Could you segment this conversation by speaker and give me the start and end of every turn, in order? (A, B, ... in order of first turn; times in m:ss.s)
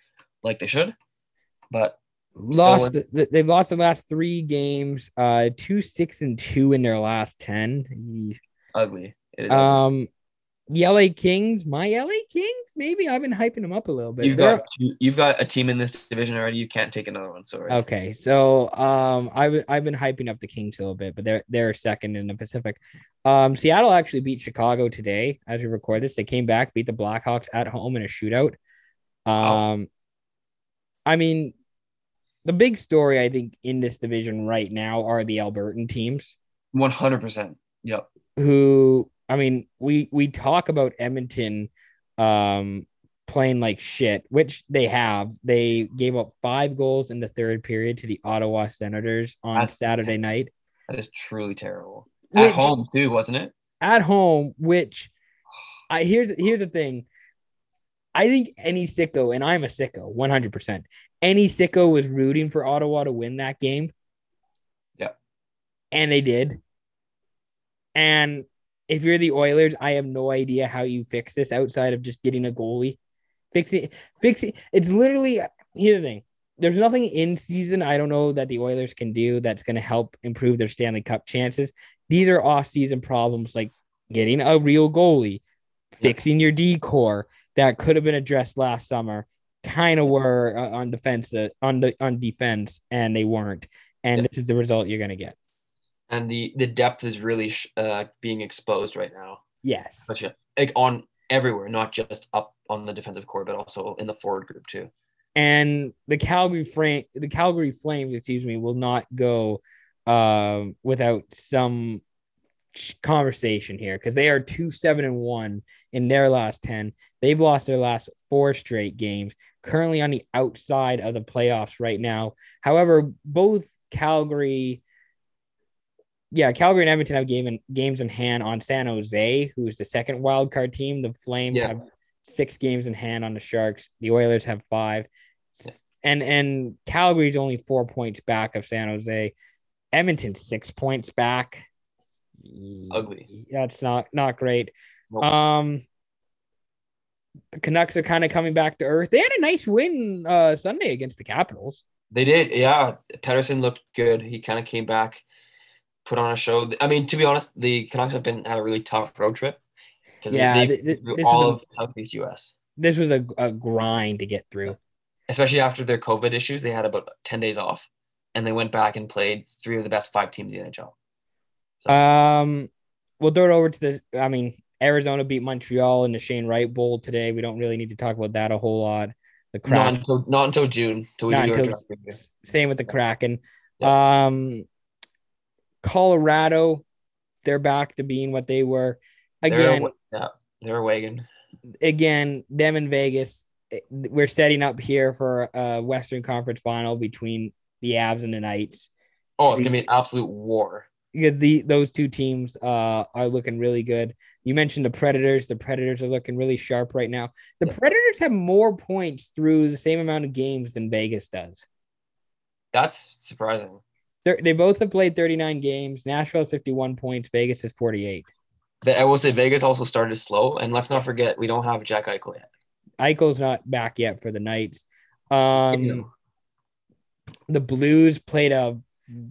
0:00.4-0:00.9 A
0:01.7-0:02.0 A
0:02.4-0:08.4 B
0:02.5-0:03.0 A
0:08.7-0:09.8 A
0:09.5-0:10.1 B
0:10.7-0:14.6 B
0:14.2-0:17.8 A
0:17.7-0:28.6 B
0:29.2-0:29.9 B
0:31.0-0:31.5 B
0:32.4-0:36.4 B
0:36.7-0:38.0 A
0:38.4-0:50.5 B
0:49.5-0:50.1 A
0:50.9-0:53.5 A
0:52.3-0:52.7 B
0:53.8-0:55.1 B
0:55.9-0:57.0 B
0:58.1-1:03.9 B
1:05.9-1:06.6 B
1:07.9-1:13.0 B
1:13.5-1:25.4 B
1:26.0-1:35.4 B
1:36.1-1:39.4 A
1:39.6-1:40.2 B
1:40.1-1:44.9 A
1:45.3-1:52.0 B
1:52.7-2:04.8 B
2:06.3-2:19.3 B
2:19.9-2:21.6 B
2:22.4-2:25.8 B
2:22.9-2:23.2 A
2:27.5-2:31.8 B
2:32.1-2:35.2 A
2:36.0-2:39.6 A
2:40.2-2:42.5 A
2:40.3-2:41.6 B
2:42.8-2:44.8 B
2:45.3-2:50.9 A
2:51.9-3:00.0 B
2:59.7-3:02.2 A
3:01.3-3:04.6 B
3:05.8-3:06.8 B
3:07.4-3:09.9 B
3:09.5-3:11.3 A
3:11.8-3:18.9 B
3:19.4-3:20.9 A
3:21.1-3:31.6 B
3:32.7-3:33.8 A
3:34.2-3:38.3 B
3:38.8-3:42.5 A
3:43.0-3:46.1 B
3:45.7-3:46.0 A
3:47.5-3:48.9 B